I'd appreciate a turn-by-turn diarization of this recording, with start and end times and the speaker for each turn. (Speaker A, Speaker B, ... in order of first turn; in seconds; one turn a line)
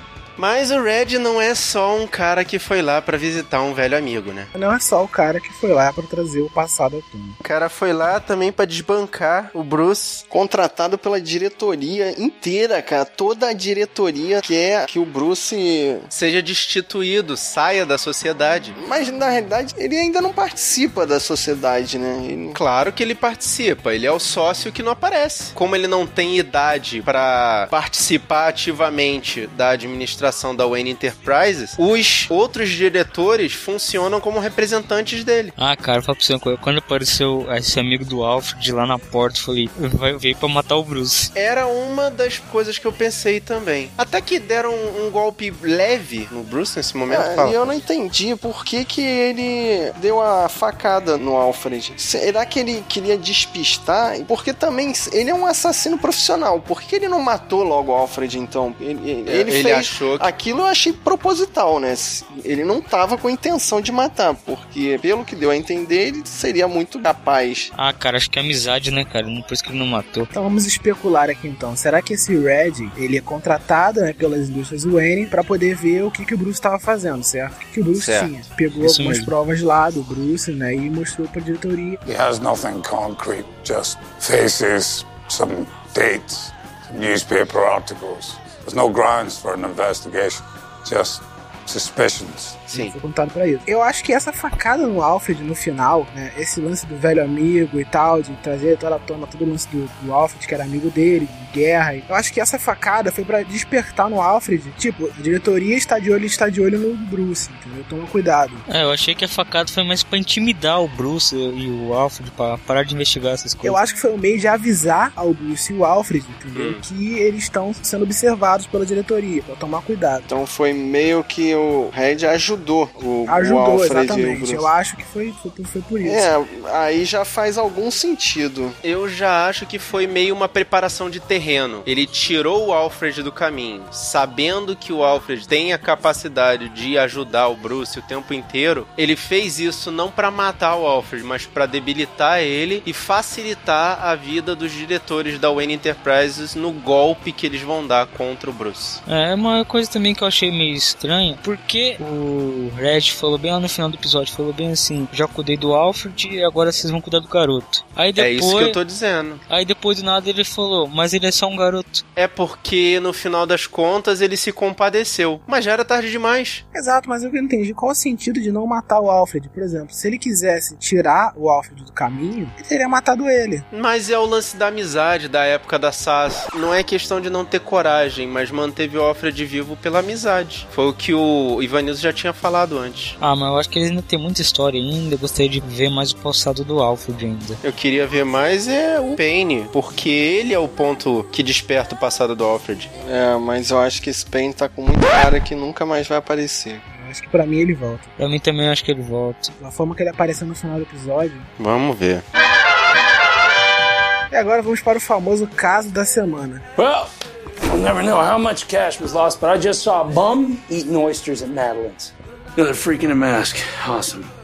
Speaker A: 0.4-4.5
Speaker B: 4.5-7.4
Speaker A: 7.4-10.2
Speaker C: 10.3-16.1
Speaker A: 16.1-18.8
Speaker C: 18.8-22.6
Speaker A: 22.5-35.5
Speaker D: 35.6-41.3
Speaker A: 41.4-47.8
Speaker C: 47.1-67.7
Speaker A: 59.3-60.3
Speaker D: 67.8-70.3
Speaker B: 70.3-82.0
Speaker A: 78.0-78.3
Speaker D: 78.8-79.3
Speaker E: 82.0-92.6
Speaker A: 92.7-93.0
Speaker B: 92.7-108.6
Speaker D: 108.7-113.8
Speaker B: 113.6-120.3
Speaker A: 116.5-116.8
Speaker C: 120.3-124.7
Speaker B: 123.3-126.3
Speaker C: 126.0-128.8
Speaker A: 128.8-149.0
Speaker D: 149.1-158.8
Speaker A: 158.2-159.4
Speaker D: 159.5-162.0
Speaker A: 162.2-166.6
Speaker B: 166.7-173.7
Speaker A: 173.7-183.2
Speaker D: 183.2-187.6
Speaker A: 187.6-192.9
Speaker C: 193.0-196.8
Speaker B: 196.9-198.1
Speaker D: 198.2-199.5
Speaker B: 199.6-201.5
Speaker A: 201.6-202.2
Speaker B: 204.3-206.7
Speaker F: 206.8-207.1
Speaker F: 207.7-214.3